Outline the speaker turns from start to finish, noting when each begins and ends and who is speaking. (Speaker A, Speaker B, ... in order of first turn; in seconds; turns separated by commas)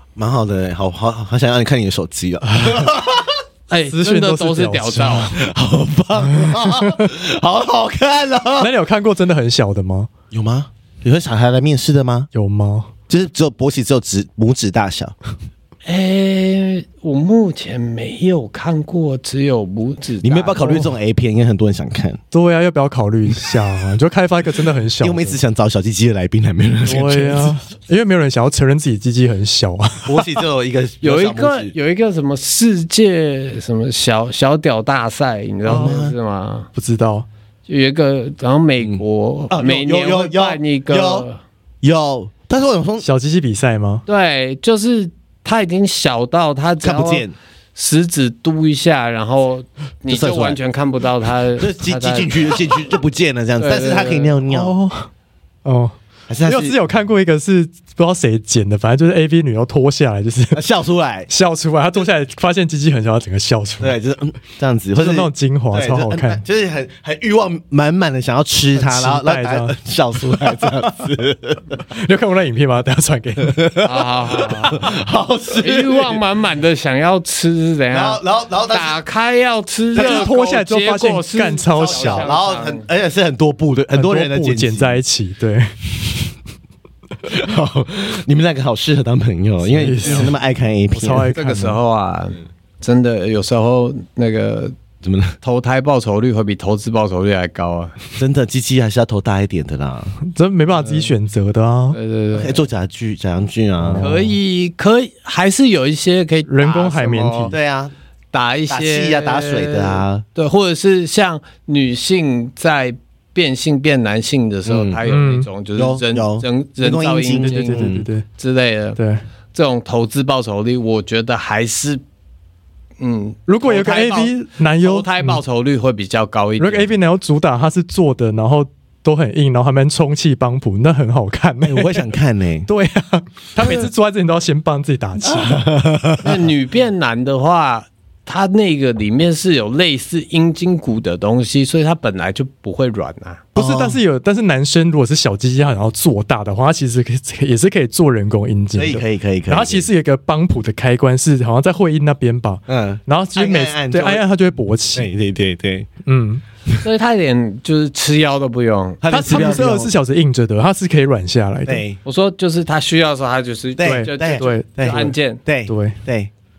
Speaker A: 0.1-3.4, Speaker B: 2.5-2.9, Speaker C: 3.7-5.3, Speaker B: 3.9-5.4, Speaker A: 5.3-8.7, Speaker B: 6.3-7.0, Speaker B: 8.6-10.1, Speaker A: 10.3-12.3, Speaker B: 12.3-12.9, Speaker A: 13.1-15.1, Speaker C: 15.8-20.8, Speaker A: 20.2-22.2, Speaker B: 20.6-20.9, Speaker B: 22.3-25.4, Speaker A: 25.0-27.6, Speaker B: 26.9-30.3, Speaker A: 30.0-31.7, Speaker C: 31.0-36.7, Speaker A: 35.6-36.1, Speaker B: 35.7-36.0, Speaker B: 36.7-37.3, Speaker C: 37.7-41.4, Speaker A: 38.8-41.2, Speaker A: 41.8-43.0, Speaker B: 43.0-44.0, Speaker C: 44.1-52.5, Speaker A: 46.8-47.3, Speaker A: 50.1-50.6, Speaker A: 51.6-54.8, Speaker C: 53.6-54.3, Speaker B: 54.5-55.1, Speaker B: 55.6-60.6, Speaker A: 56.3-56.8, Speaker A: 60.5-61.3, Speaker B: 61.3-64.0, Speaker A: 63.8-71.6, Speaker B: 65.0-66.4, Speaker B: 68.8-69.8, Speaker B: 70.3-71.0, Speaker B: 71.9-73.8, Speaker A: 73.4-76.2, Speaker C: 73.8-74.8, Speaker C: 75.6-82.8, Speaker A: 77.9-79.0, Speaker A: 79.9-80.3, Speaker B: 79.9-82.3, Speaker A: 81.7-85.0, Speaker B: 83.9-85.8, Speaker A: 87.2-91.3, Speaker B: 89.6-90.3, Speaker B: 90.9-91.8, Speaker C: 91.3-94.7, Speaker A: 95.0-95.3, Speaker C: 95.4-97.9, Speaker A: 98.2-100.2, Speaker B: 100.2-102.0, Speaker C: 100.7-101.1, Speaker C: 101.9-102.6, Speaker A: 102.3-104.1, Speaker B: 103.8-104.2, Speaker C: 104.0-107.5, Speaker B: 106.5-107.5, Speaker A: 107.5-107.9, Speaker C: 108.3-119.0, Speaker A: 108.7-110.2, Speaker A: 114.7-115.0, Speaker B: 115.0-115.5, Speaker A: 115.8-118.1, Speaker B: 117.4-118.2, Speaker B: 119.0-119.2, Speaker C: 119.5-122.0, Speaker C: 123.0-126.9, Speaker B: 123.5-125.4, Speaker B: 126.6-132.1, Speaker A: 131.6-132.7, Speaker B: 132.7-135.7, Speaker A: 135.2-136.4, Speaker C: 136.2-143.4, Speaker A: 143.5-144.0, Speaker B: 143.5-155.1, Speaker A: 148.7-149.9, Speaker A: 152.7-154.2, Speaker A: 154.9-155.9, Speaker B: 156.1-156.4, Speaker C: 156.8-159.0, Speaker A: 159.0-159.9, Speaker B: 159.1-161.8, Speaker A: 161.7-162.0, Speaker C: 162.0-165.4, Speaker A: 163.8-166.3, Speaker B: 163.8-165.1, Speaker B: 165.7-166.0